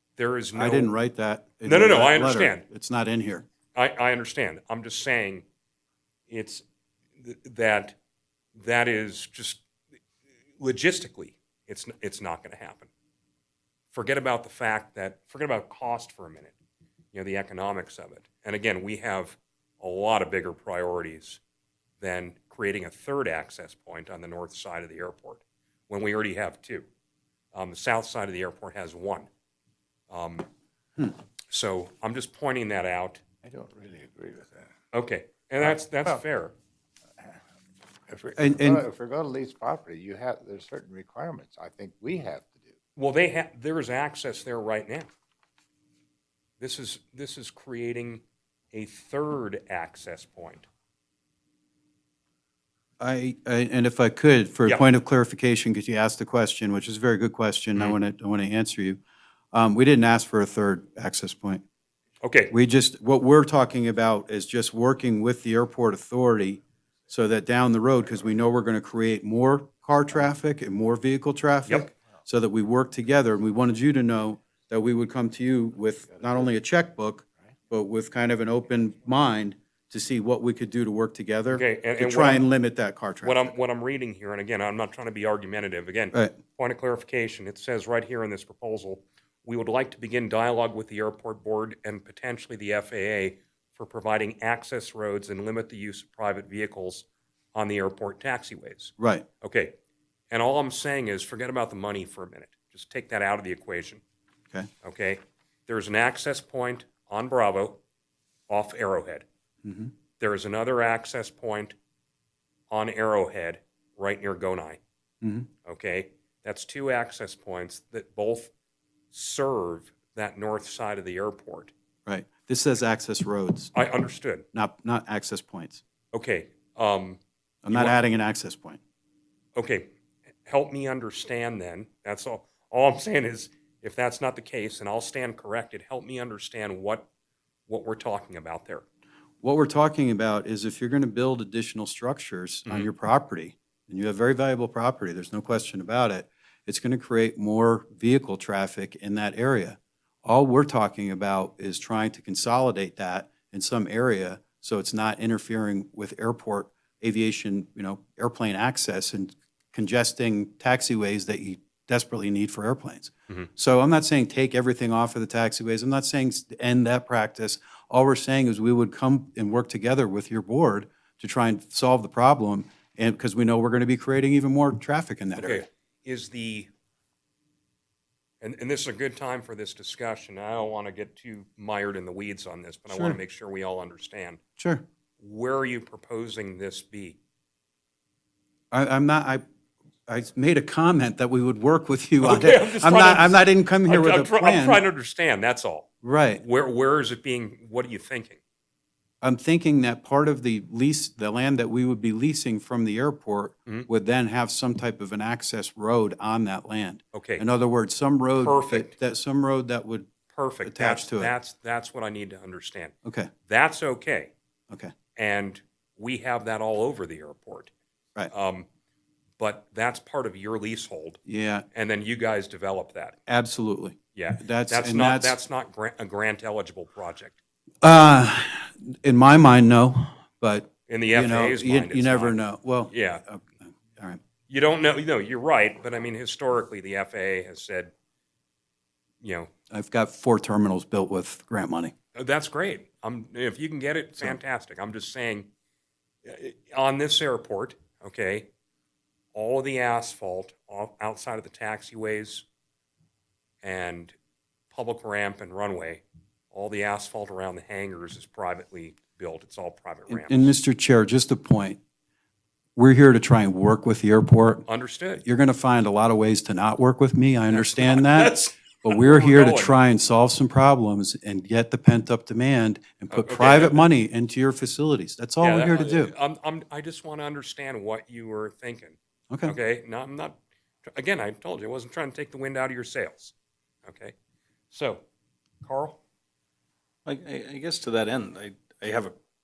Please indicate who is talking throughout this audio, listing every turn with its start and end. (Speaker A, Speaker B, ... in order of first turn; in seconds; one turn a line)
Speaker A: 0.2-0.9
Speaker B: 0.6-3.5
Speaker A: 1.6-2.6
Speaker A: 3.8-5.4
Speaker A: 6.3-6.6
Speaker A: 7.2-8.0
Speaker A: 8.6-9.6
Speaker A: 10.6-12.9
Speaker A: 13.9-16.6
Speaker A: 17.1-21.4
Speaker A: 22.0-26.9
Speaker A: 27.5-29.3
Speaker A: 30.1-30.5
Speaker A: 31.5-33.2
Speaker C: 33.4-34.7
Speaker A: 34.9-36.5
Speaker C: 38.1-42.7
Speaker B: 38.4-38.8
Speaker A: 43.0-45.1
Speaker A: 46.6-50.7
Speaker B: 53.0-59.0
Speaker B: 59.5-61.6
Speaker A: 62.2-62.5
Speaker B: 62.5-83.5
Speaker A: 81.5-82.5
Speaker A: 83.2-99.7
Speaker B: 99.0-99.3
Speaker A: 100.3-104.0
Speaker A: 104.8-107.8
Speaker A: 108.5-109.2
Speaker B: 109.6-109.9
Speaker A: 110.2-111.7
Speaker A: 112.7-114.8
Speaker B: 115.2-115.5
Speaker A: 115.7-118.5
Speaker A: 119.1-121.7
Speaker B: 122.1-123.7
Speaker A: 123.7-124.5
Speaker B: 124.5-125.8
Speaker A: 126.1-128.0
Speaker B: 127.6-128.8
Speaker A: 129.6-129.9
Speaker A: 130.5-137.1
Speaker A: 137.7-138.8
Speaker B: 139.4-175.7
Speaker A: 175.4-176.7
Speaker A: 178.4-184.4
Speaker B: 182.9-183.2
Speaker B: 184.6-184.8
Speaker A: 185.2-187.2
Speaker B: 188.7-189.4
Speaker B: 190.1-194.8
Speaker A: 192.2-198.4
Speaker B: 196.0-196.4
Speaker B: 199.2-210.1
Speaker A: 207.1-207.4
Speaker A: 208.4-208.9
Speaker A: 210.3-212.9
Speaker B: 210.7-211.3
Speaker B: 213.0-213.3
Speaker A: 213.5-214.3
Speaker A: 215.2-217.7
Speaker A: 218.3-218.7
Speaker A: 219.4-221.2
Speaker B: 221.3-221.7
Speaker A: 221.7-223.2
Speaker B: 223.3-225.4
Speaker A: 224.2-227.4
Speaker B: 227.8-234.2
Speaker A: 230.9-233.2
Speaker A: 234.5-237.9
Speaker A: 239.2-239.5
Speaker B: 239.7-241.9
Speaker A: 242.2-245.5
Speaker A: 246.2-248.5
Speaker A: 249.3-252.4
Speaker A: 253.6-254.2
Speaker A: 254.7-260.5
Speaker B: 260.1-261.8
Speaker B: 262.8-264.7
Speaker A: 264.7-265.2
Speaker B: 265.2-276.1
Speaker A: 267.5-269.8
Speaker A: 273.1-273.9
Speaker A: 275.4-283.3
Speaker B: 279.3-279.6
Speaker A: 283.9-284.1
Speaker A: 284.7-285.0
Speaker A: 285.6-286.0
Speaker D: 287.1-289.1